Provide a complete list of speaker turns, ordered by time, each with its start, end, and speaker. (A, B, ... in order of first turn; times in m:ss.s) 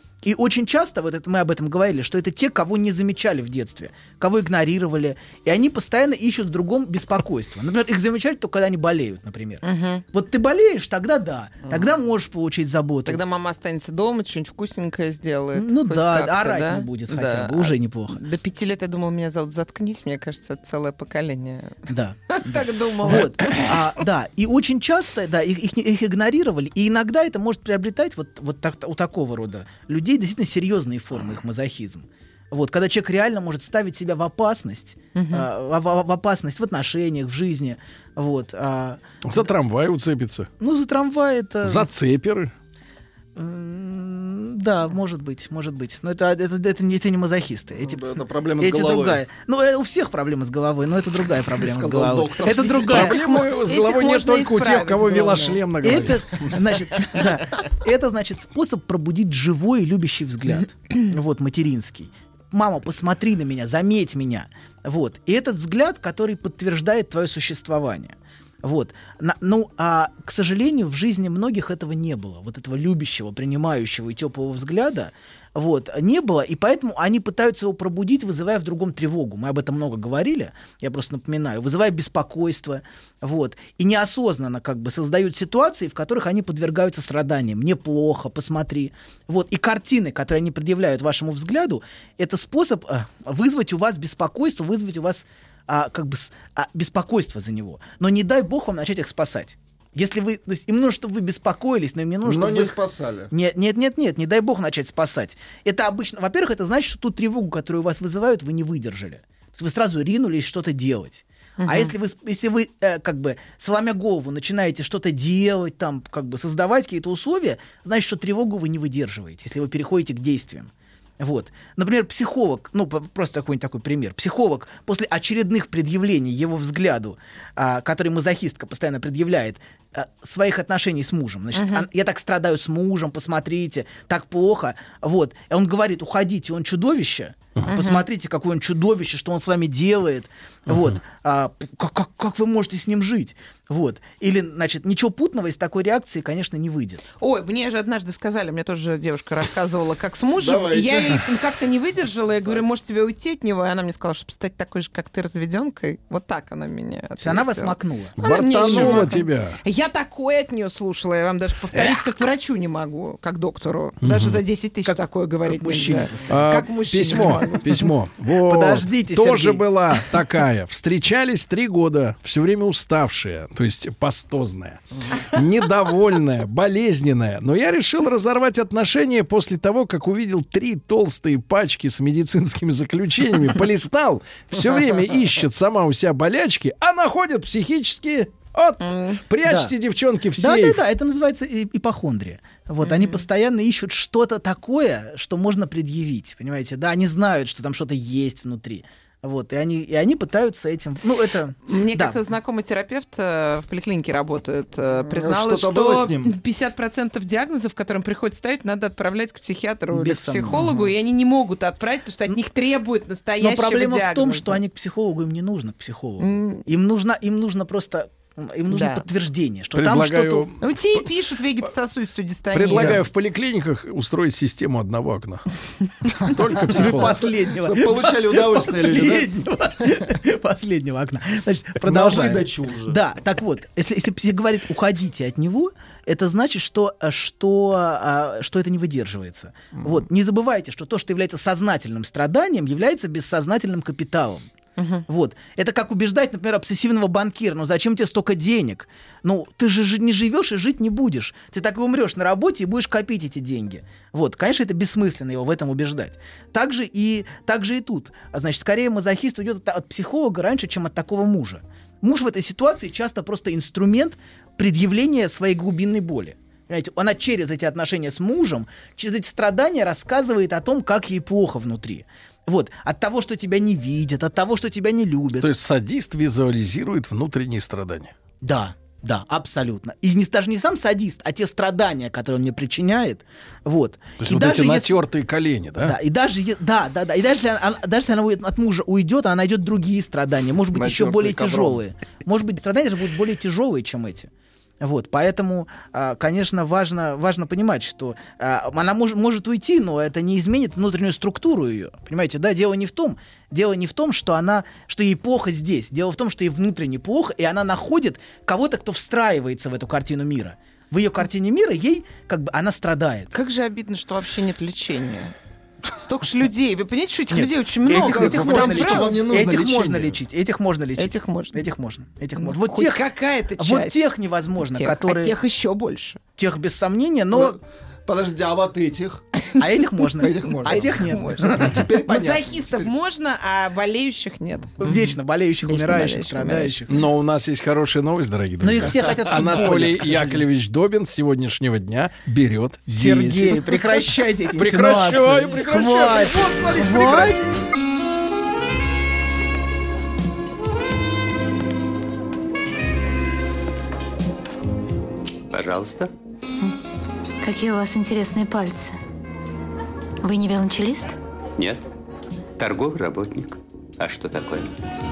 0:00.2-0:13.2 A
0:09.6-0:10.0 B
0:13.0-0:23.8 B
0:15.5-0:18.2 A
0:21.9-0:39.0 A
0:35.1-0:35.5 B
0:39.2-0:40.5 C
0:40.6-0:41.9 A
0:41.6-0:42.5 C
0:43.4-0:48.0 A
0:47.8-0:49.2 D
0:48.6-0:53.2 A
0:51.5-0:53.0 D
0:52.6-0:56.2 C
0:52.9-0:55.6 B
0:55.8-1:42.8 A
1:42.2-1:43.3 D
1:43.3-2:27.0 A
1:51.6-1:51.9 B
2:11.5-2:11.8 B
2:17.7-2:18.0 B
2:27.2-2:47.8 B
2:30.4-2:31.2 D
2:37.2-2:39.2 A
2:38.2-2:39.6 C
2:41.7-2:42.0 C
2:44.0-2:44.4 C
2:44.8-2:46.4 A
2:46.3-3:10.8 C
2:47.4-2:47.8 A
2:48.4-2:50.1 A
3:08.8-3:09.2 B
3:09.4-3:09.7 A
3:10.4-3:22.2 A
3:12.8-3:13.2 B
3:21.7-3:34.6 B
3:25.1-3:26.3 D
3:29.9-3:30.9 A
3:33.4-3:40.5 A
3:36.2-3:36.6 B
3:38.7-3:39.0 B
3:39.7-3:41.0 C
3:40.6-3:43.0 B
3:42.5-3:45.4 C
3:46.2-3:47.2 C
3:46.7-3:49.3 D
3:46.7-4:04.4 A
3:51.8-3:53.0 D
4:04.8-4:05.0 B
4:05.1-4:35.5 A
4:35.4-4:38.1 C
4:38.4-4:45.0 A
4:44.2-4:46.0 C
4:45.8-4:54.3 A
4:50.7-4:51.8 D
4:54.8-5:13.3 A
5:13.3-5:15.3 B
5:15.9-5:19.2 B
5:17.3-5:23.0 A
5:17.9-5:20.2 D
5:21.0-5:21.6 B
5:22.4-5:26.2 B
5:23.6-5:25.3 A
5:26.4-5:27.6 A
5:27.3-5:29.2 D
5:29.6-5:31.9 A
5:30.2-5:32.9 D
5:30.6-5:35.0 B
5:34.8-5:36.9 A
5:35.6-5:36.8 B
5:36.9-5:47.5 C
5:38.6-5:40.5 A
5:38.8-5:39.4 D
5:42.9-5:47.4 A
5:55.5-5:56.1 E
5:57.4-5:59.0 F
6:00.2-6:01.2 F
6:01.6-6:01.8 E
6:02.6-6:04.8 E